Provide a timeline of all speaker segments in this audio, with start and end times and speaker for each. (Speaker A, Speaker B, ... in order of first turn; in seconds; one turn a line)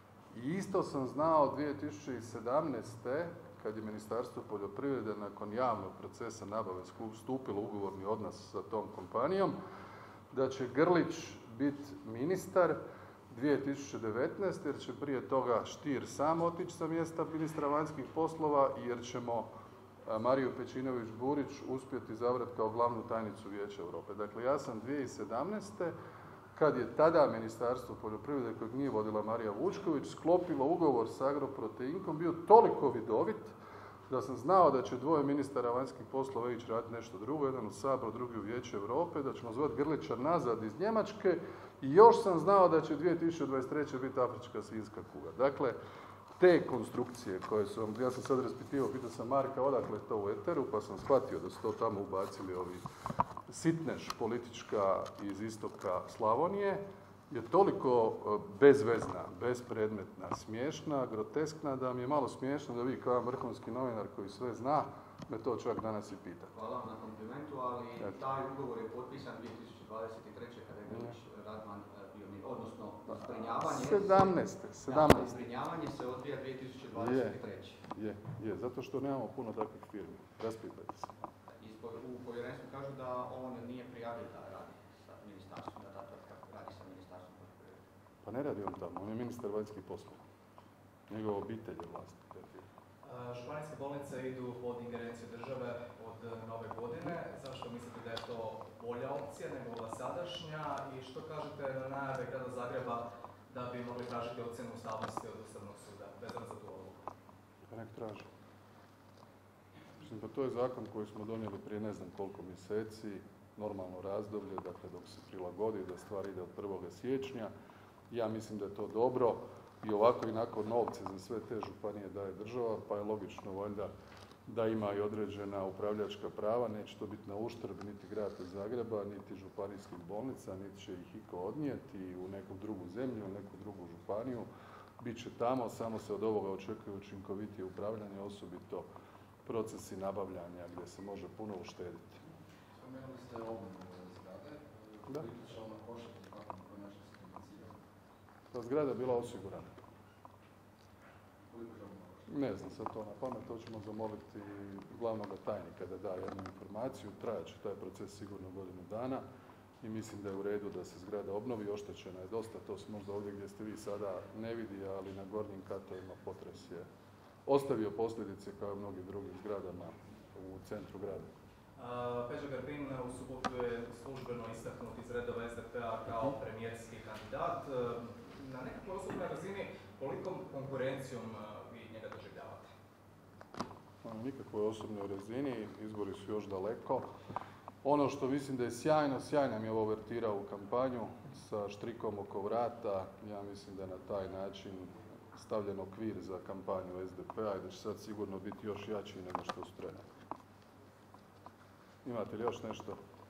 Speaker A: 0.3-9.5
Speaker A: 10.3-12.8
Speaker A: 13.3-19.5
Speaker A: 20.1-25.9
Speaker A: 26.5-33.5
Speaker A: 34.1-45.8
Speaker A: 46.4-52.8
Speaker A: 53.5-66.5
Speaker B: 66.5-77.8
Speaker A: 70.9-71.2
Speaker A: 73.1-75.4
Speaker A: 76.9-81.2
Speaker B: 81.6-87.8
Speaker A: 88.2-90.2
Speaker A: 91.1-92.7
Speaker C: 93.0-107.0
Speaker A: 107.7-108.3
Speaker A: 110.0-117.5
Speaker A: 118.1-123.9
Speaker A: 124.5-134.5
Speaker A: 135.0-138.9
Speaker A: 139.4-142.2
Speaker D: 142.8-147.8
Speaker A: 148.5-149.7
Speaker D: 151.5-152.5
Speaker A: 152.3-159.2
Speaker A: 159.8-166.9
Speaker A: 167.4-171.3
Speaker C: 171.8-182.7
Speaker A: 184.0-187.1
Speaker A: 187.8-200.0
Speaker A: 202.0-203.0